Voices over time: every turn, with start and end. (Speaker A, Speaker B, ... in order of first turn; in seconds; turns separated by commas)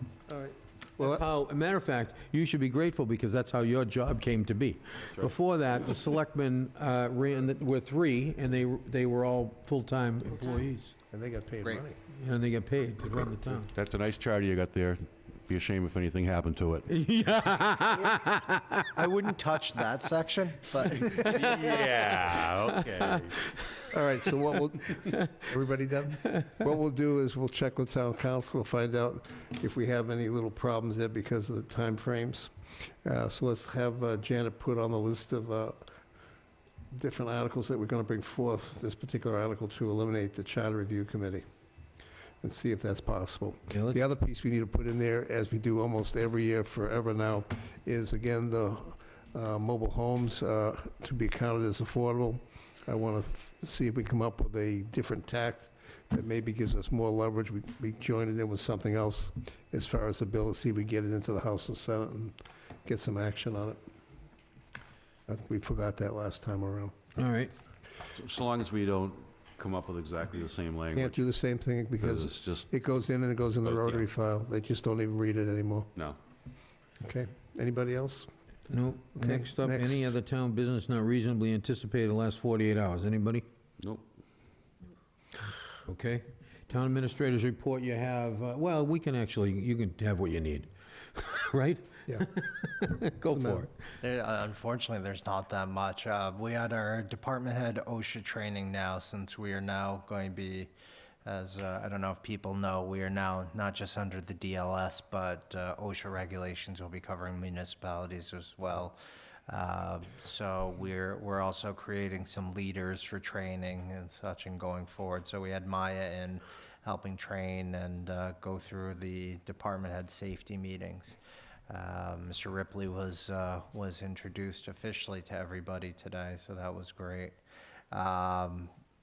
Speaker A: 0.3-1.3, Speaker B: 1.0-10.9, Speaker A: 11.1-12.0, Speaker B: 12.1-13.7, Speaker C: 13.8-16.9, Speaker B: 16.9-18.9, Speaker D: 18.9-21.8, Speaker C: 21.2-23.5, Speaker A: 23.9-35.9, Speaker A: 36.9-41.5, Speaker A: 42.4-63.8, Speaker A: 65.3-66.9, Speaker B: 67.2-67.5, Speaker C: 68.1-71.2, Speaker A: 70.9-75.9, Speaker C: 72.0-72.7, Speaker C: 73.6-74.0, Speaker A: 77.0-78.3, Speaker B: 78.7-83.5, Speaker A: 79.2-80.1, Speaker C: 83.8-84.0, Speaker B: 85.8-93.7, Speaker A: 93.3-93.7, Speaker D: 94.0-100.7, Speaker D: 101.2-109.0, Speaker D: 109.5-121.2, Speaker D: 121.7-127.4, Speaker D: 127.9-128.7